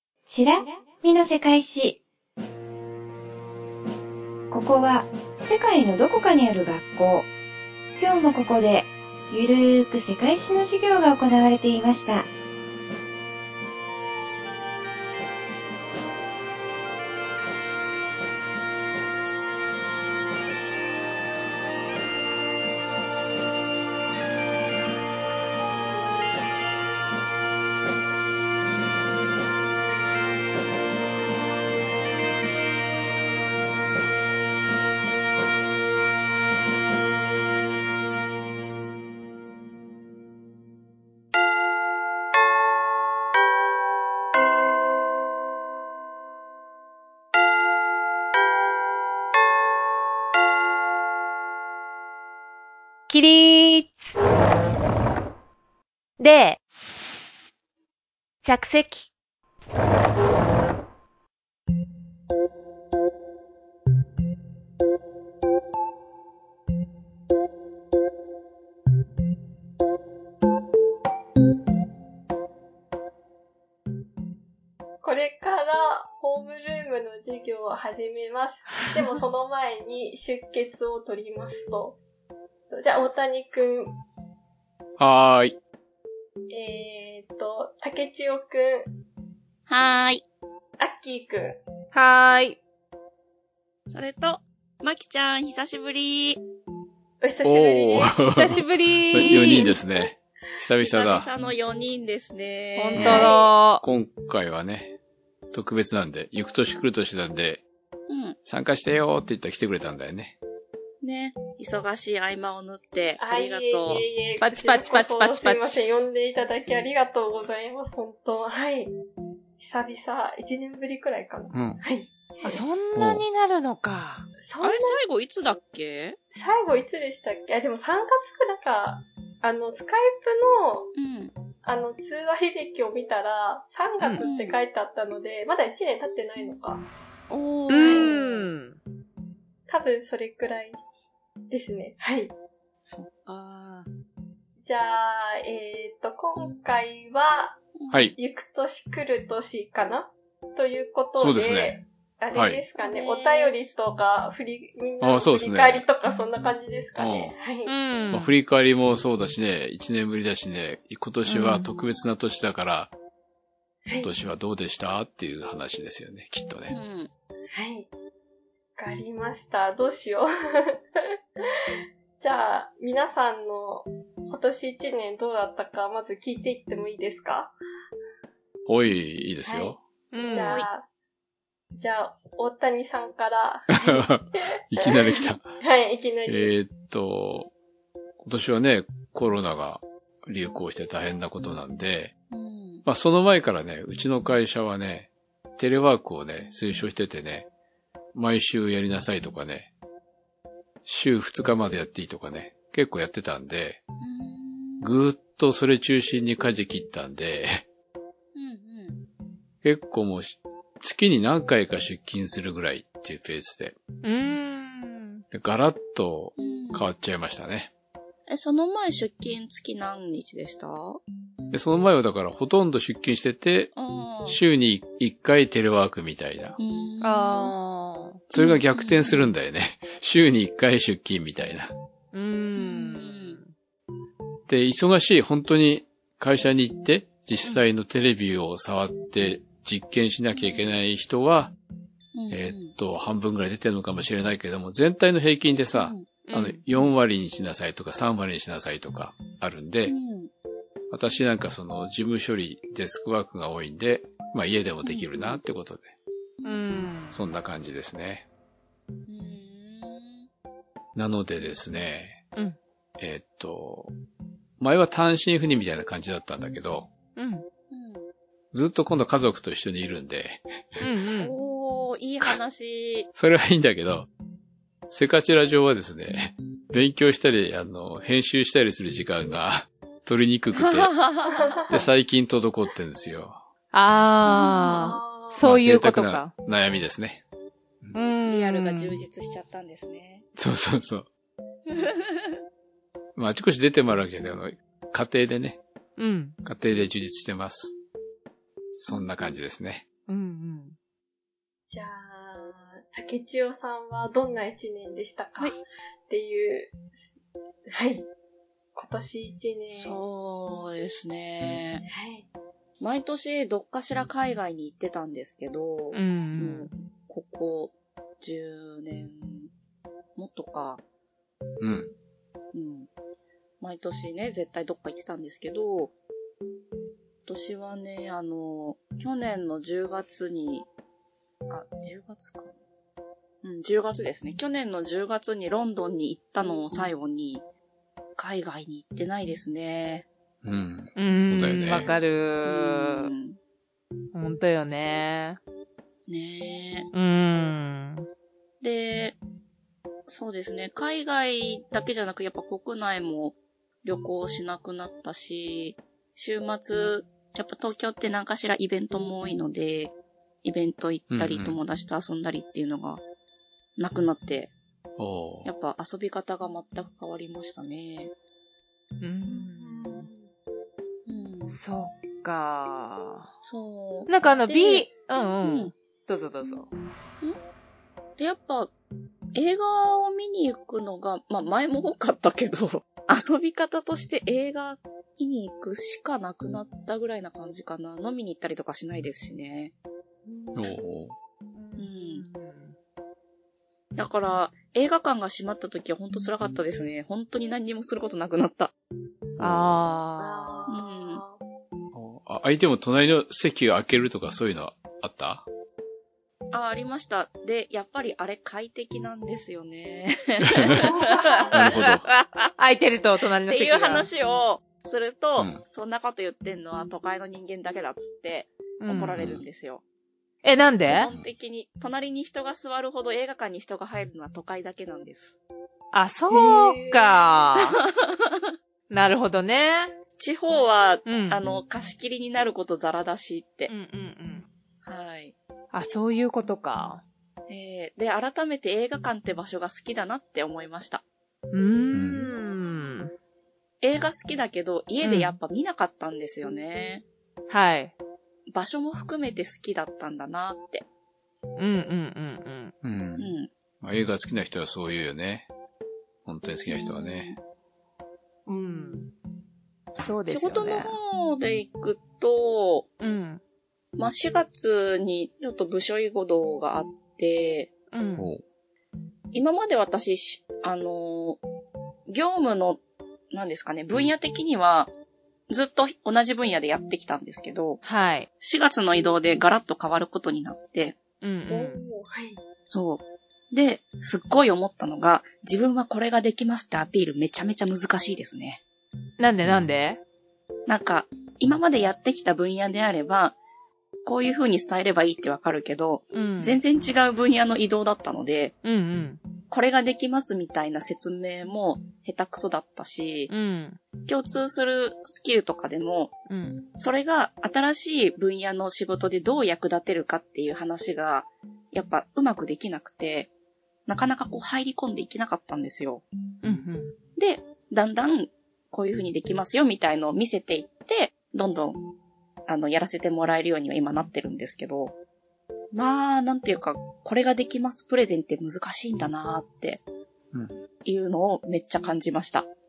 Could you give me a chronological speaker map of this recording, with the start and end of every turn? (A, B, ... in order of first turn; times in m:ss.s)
0:00.2-0:02.0 A
0:04.5-0:07.3 A
0:08.0-0:12.2 A
0:53.1-0:54.2 B
0:56.2-0:56.6 B
0:58.4-0:59.1 B
1:15.0-1:22.0 C
1:22.7-1:23.9 C
1:25.0-1:25.6 D
1:26.5-1:28.9 C
1:29.7-1:30.2 E
1:30.8-1:31.6 C
1:31.9-1:32.6 B
1:33.9-1:36.4 E
1:37.2-1:38.2 C
1:37.4-1:41.3 D
1:38.3-1:39.7 B
1:39.4-1:40.0 C
1:40.8-1:43.4 E
1:42.8-1:43.8 B
1:42.9-1:43.5 C
1:43.0-1:45.0 D
1:45.5-1:47.6 D
1:48.1-1:48.4 E
1:48.4-1:50.4 D
1:51.0-1:54.0 E
1:53.2-1:58.9 C
1:54.4-1:55.9 B
1:59.6-2:02.6 C
2:01.5-2:01.8 D
2:02.4-2:04.3 B
2:03.0-2:03.2 D
2:04.4-2:05.0 C
2:04.6-2:06.2 E
2:06.3-2:10.9 C
2:11.0-2:11.3 E
2:11.6-2:16.8 C
2:14.2-2:14.6 E
2:17.3-2:18.2 E
2:17.7-2:18.8 B
2:17.7-2:18.5 C
2:19.7-2:20.8 C
2:21.5-2:22.3 C
2:22.8-2:23.9 E
2:24.6-2:27.6 C
2:27.8-2:28.1 E
2:27.9-2:28.1 D
2:28.2-2:37.7 C
2:31.2-2:31.8 D
2:32.3-2:32.6 D
2:32.8-2:33.7 E
2:35.0-2:35.9 D
2:37.0-2:37.3 D
2:37.6-2:38.3 B
2:38.1-2:42.9 D
2:41.2-2:41.7 B
2:44.0-2:46.8 D
2:46.7-2:47.1 E
2:47.5-2:47.9 C
2:48.8-2:50.8 C
2:52.2-2:57.5 C
2:58.7-2:59.8 D
2:59.4-2:59.7 C
3:00.1-3:00.6 B
3:00.2-3:00.7 E
3:00.3-3:00.8 C
3:01.8-3:06.5 C
3:03.7-3:05.5 D
3:06.2-3:07.5 D
3:08.2-3:12.1 D
3:12.3-3:12.8 E
3:12.8-3:17.5 D
3:18.1-3:19.7 D
3:20.8-3:23.8 D
3:24.0-3:24.9 E
3:24.8-3:27.6 D
3:28.3-3:29.0 E
3:29.6-3:33.8 D
3:34.0-3:35.2 B
3:35.3-3:37.7 D
3:36.4-3:36.9 E
3:38.3-3:41.0 E
3:41.5-3:43.7 D
3:43.7-3:44.4 E
3:44.2-3:46.6 D
3:46.6-3:47.5 E
3:47.0-3:48.2 B
3:48.3-3:51.7 D
3:48.3-3:49.3 E
3:52.1-3:53.5 B
3:52.6-3:53.4 E
3:54.5-4:01.5 D
4:00.3-4:00.8 E
4:02.1-4:02.7 E
4:02.3-4:09.9 D
4:05.7-4:06.0 E
4:06.2-4:06.6 B
4:09.9-4:10.3 E
4:10.9-4:15.9 D
4:14.8-4:15.4 E
4:16.4-4:17.2 B
4:17.1-4:18.2 D
4:19.1-4:20.3 E
4:20.9-4:22.2 D
4:23.0-4:23.9 D
4:24.6-4:26.9 D
4:27.2-4:27.4 B
4:27.7-4:28.1 E
4:28.5-4:30.8 D
4:30.8-4:31.3 B
4:31.2-4:33.1 E
4:33.1-4:34.1 D
4:34.9-4:40.9 D
4:40.6-4:41.4 E
4:41.3-4:41.8 C
4:41.7-4:43.4 D
4:43.7-4:46.3 B
4:44.2-4:45.4 C
4:45.4-4:47.2 D
4:47.9-4:48.9 B
4:48.2-4:50.2 E
4:50.4-4:51.1 D
4:51.7-4:52.3 E
4:53.2-4:55.6 D
4:56.0-4:56.4 B
4:56.4-4:57.7 D
4:58.7-4:59.8 D
5:00.1-5:00.7 B
5:01.6-5:06.9 C
5:07.7-5:08.1 C
5:08.7-5:10.0 C
5:09.7-5:11.8 E
5:11.9-5:12.3 C
5:12.8-5:19.5 E
5:15.9-5:16.7 B
5:20.2-5:20.8 E
5:21.6-5:21.9 D
5:22.5-5:22.9 E
5:23.6-5:25.9 E
5:27.2-5:30.7 E
5:31.5-5:32.6 E
5:33.4-5:37.4 E
5:38.2-5:40.1 E
5:40.4-5:41.9 D
5:41.0-5:43.1 B
5:41.7-5:43.4 E
5:44.1-5:45.4 B
5:46.1-5:46.9 E
5:46.9-5:48.0 B
5:48.6-5:49.2 E
5:50.1-6:03.0 E
6:01.1-6:01.6 D
6:03.8-6:04.5 E
6:05.0-6:05.5 D
6:05.4-6:08.1 E
6:09.0-6:10.1 B
6:09.3-6:10.3 C
6:11.1-6:11.6 E
6:11.5-6:13.3 B
6:13.4-6:14.9 E
6:14.1-6:16.7 B
6:15.4-6:15.7 E
6:18.2-6:18.7 E
6:19.3-6:29.7 E
6:30.2-6:30.7 C
6:30.5-6:31.1 D
6:31.5-6:32.8 B
6:31.8-6:32.2 E
6:34.0-6:38.7 E
6:39.4-6:39.8 D
6:39.4-6:40.6 B
6:40.2-6:41.4 C
6:40.7-6:41.2 E
6:41.9-6:45.4 D
6:46.5-6:52.5 E
6:50.5-6:50.8 D
6:50.8-6:51.6 C
6:51.5-6:52.0 D
6:52.6-6:54.1 B
6:53.4-6:59.8 E
6:58.8-6:59.2 B
6:59.2-6:59.4 D
7:00.4-7:01.1 B
7:00.8-7:05.4 E
7:05.9-7:07.8 B
7:06.3-7:07.3 C
7:08.9-7:09.9 B
7:10.2-7:13.7 E
7:11.0-7:11.4 B
7:13.7-7:14.4 B
7:14.8-7:15.3 E
7:15.7-7:17.0 B
7:17.5-7:21.0 E
7:21.5-7:23.1 B
7:21.9-7:22.3 D
7:23.8-7:27.0 E
7:25.0-7:25.4 B
7:27.5-7:27.9 B
7:28.5-7:30.8 E
7:31.6-7:32.7 B
7:32.8-7:33.3 D
7:33.2-7:33.5 E
7:33.8-7:35.5 D
7:36.2-7:37.3 D
7:36.7-7:37.4 E
7:38.5-7:39.1 B
7:40.0-7:41.0 B
7:40.3-7:42.9 E
7:43.0-7:43.4 B
7:44.0-7:47.7 E
7:47.9-7:48.3 B
7:48.2-7:48.4 D
7:49.3-7:51.4 E
7:52.1-7:54.9 E
7:55.5-7:57.8 E
7:57.8-7:58.3 B
7:58.4-8:01.0 E
8:01.2-8:01.8 B
8:01.5-8:02.4 C
8:02.7-8:08.6 E
8:09.2-8:10.0 B
8:10.7-8:13.4 E
8:14.0-8:18.6 E
8:16.1-8:16.6 B
8:18.6-8:19.2 B
8:19.5-8:23.3 E
8:23.3-8:23.8 B
8:24.0-8:26.1 E
8:26.3-8:26.6 B
8:26.8-8:33.3 E
8:33.9-8:36.0 E
8:36.4-8:36.9 B
8:37.2-8:41.8 E
8:42.5-8:45.0 E
8:45.7-8:49.8 E
8:50.3-8:50.6 D
8:50.8-8:52.5 E